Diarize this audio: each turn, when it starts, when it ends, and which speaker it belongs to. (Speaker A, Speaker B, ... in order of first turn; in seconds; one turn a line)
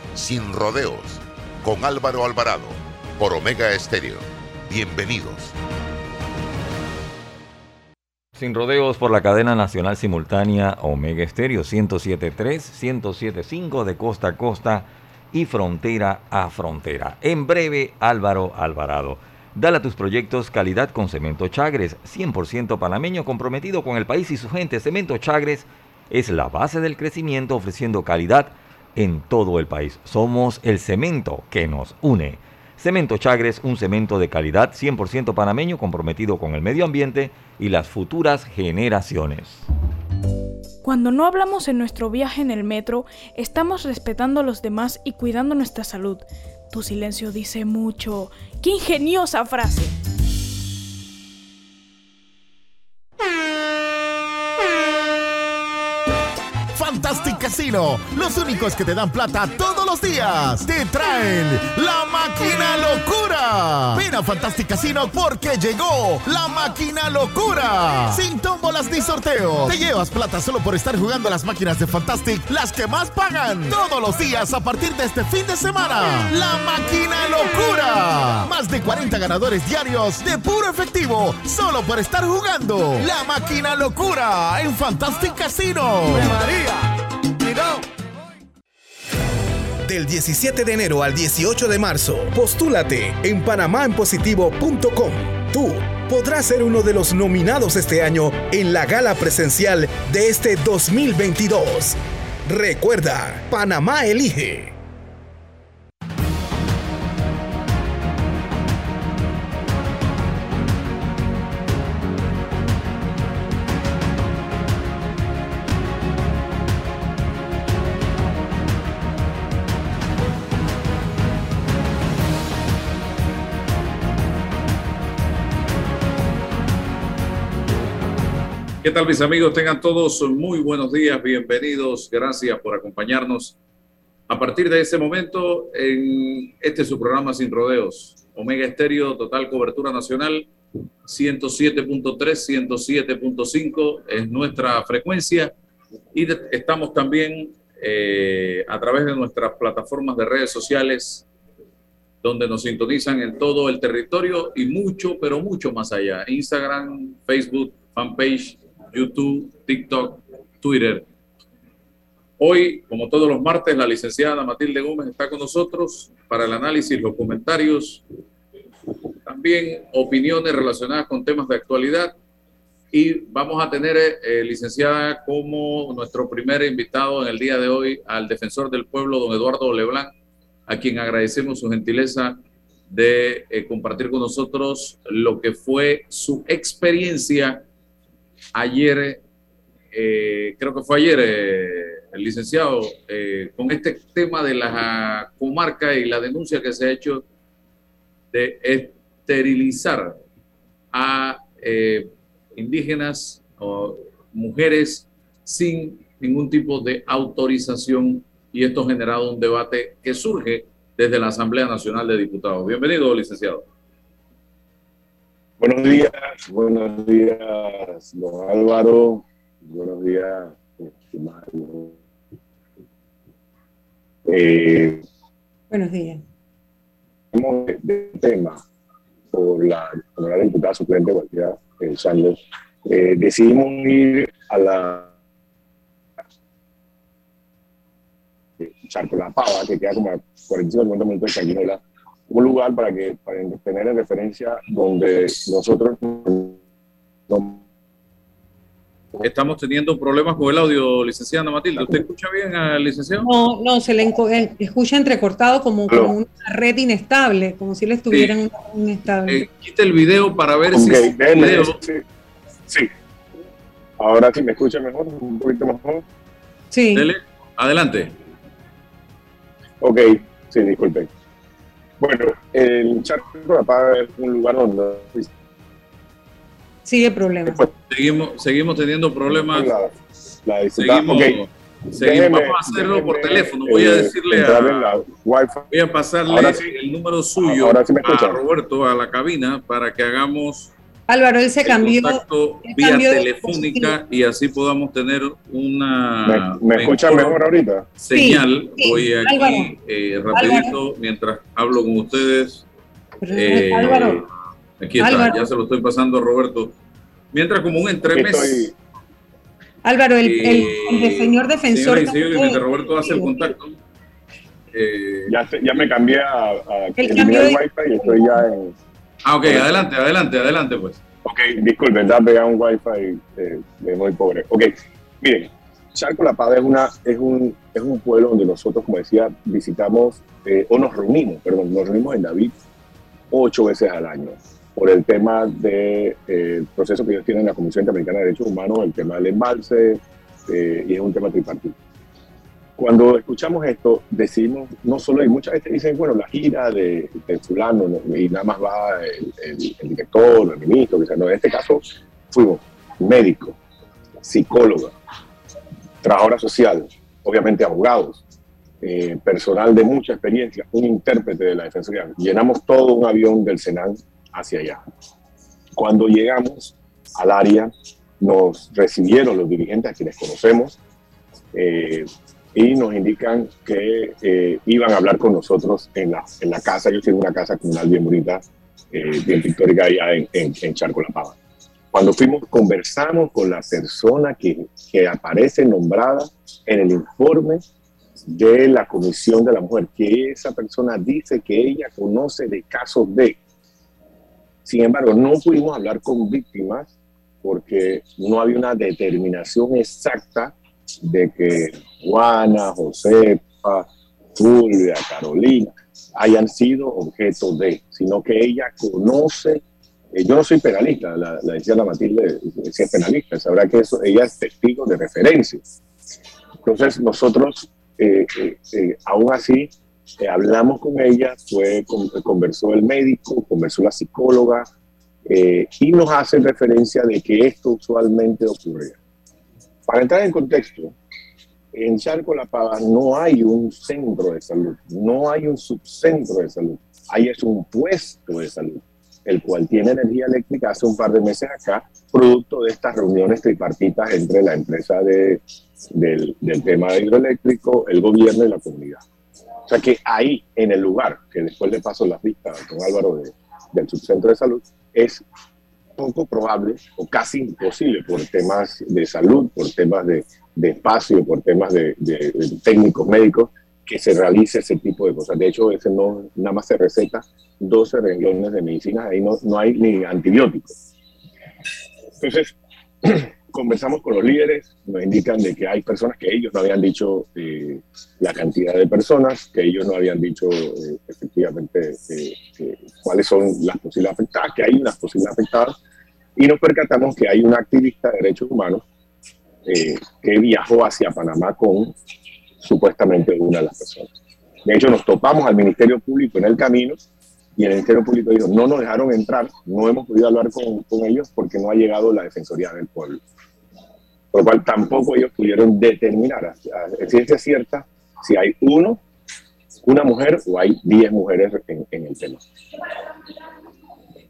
Speaker A: 0.1-5.5
Speaker B: 8.3-39.6
Speaker C: 40.8-49.9
Speaker D: 56.7-86.4
Speaker E: 89.8-104.7
Speaker F: 128.8-133.6
Speaker F: 134.3-140.5
Speaker F: 141.1-145.5
Speaker F: 146.1-151.2
Speaker F: 152.2-161.1
Speaker F: 162.4-168.0
Speaker F: 169.2-172.1
Speaker F: 172.9-180.1
Speaker F: 180.7-182.4
Speaker F: 182.9-187.6
Speaker F: 188.5-189.2
Speaker F: 189.9-197.2
Speaker F: 198.3-200.2
Speaker F: 200.9-213.6
Speaker G: 215.6-222.0
Speaker G: 224.2-225.0
Speaker H: 225.7-226.2
Speaker G: 227.3-228.6
Speaker G: 229.3-235.1
Speaker G: 238.6-246.6
Speaker G: 247.3-247.6
Speaker F: 249.2-253.3
Speaker H: 253.2-259.4
Speaker G: 255.9-256.1
Speaker F: 259.3-261.8
Speaker G: 260.7-262.0
Speaker G: 264.0-266.0
Speaker H: 266.7-267.1
Speaker F: 266.9-268.1
Speaker G: 269.8-271.1
Speaker G: 272.0-275.3
Speaker H: 276.8-277.6
Speaker F: 277.9-279.7
Speaker G: 279.3-279.9
Speaker G: 280.4-281.4
Speaker F: 280.8-285.0
Speaker G: 281.9-285.7
Speaker F: 285.7-290.7
Speaker G: 286.3-286.6
Speaker G: 287.4-288.4
Speaker H: 291.1-293.9
Speaker F: 291.6-297.4
Speaker G: 296.2-297.9
Speaker F: 298.0-302.6
Speaker H: 298.1-299.7
Speaker H: 300.3-300.7
Speaker H: 303.2-304.2
Speaker F: 303.3-304.2
Speaker F: 304.8-306.7
Speaker H: 305.0-305.4
Speaker F: 307.3-308.7
Speaker G: 308.1-308.7
Speaker H: 309.8-313.5
Speaker F: 310.2-313.7
Speaker F: 314.7-315.3
Speaker G: 315.3-318.8
Speaker H: 317.0-318.4
Speaker F: 319.2-321.0
Speaker G: 319.4-319.7
Speaker G: 321.2-332.5
Speaker G: 333.3-341.8
Speaker G: 342.8-353.6
Speaker G: 354.2-354.9
Speaker G: 356.0-358.2
Speaker G: 358.8-364.8
Speaker G: 365.8-370.8
Speaker G: 371.5-381.4
Speaker G: 381.9-387.6
Speaker G: 388.3-393.4
Speaker G: 394.6-396.9
Speaker G: 397.4-415.6
Speaker G: 416.6-424.7
Speaker G: 425.3-429.0
Speaker G: 429.9-430.9
Speaker G: 431.7-445.4
Speaker G: 445.9-449.0
Speaker G: 449.7-455.2
Speaker G: 456.0-470.8
Speaker G: 472.2-485.8
Speaker G: 486.4-488.8
Speaker G: 489.6-491.9
Speaker G: 492.6-494.1
Speaker G: 494.6-497.0
Speaker G: 497.6-503.2
Speaker G: 504.3-509.0
Speaker G: 509.8-512.4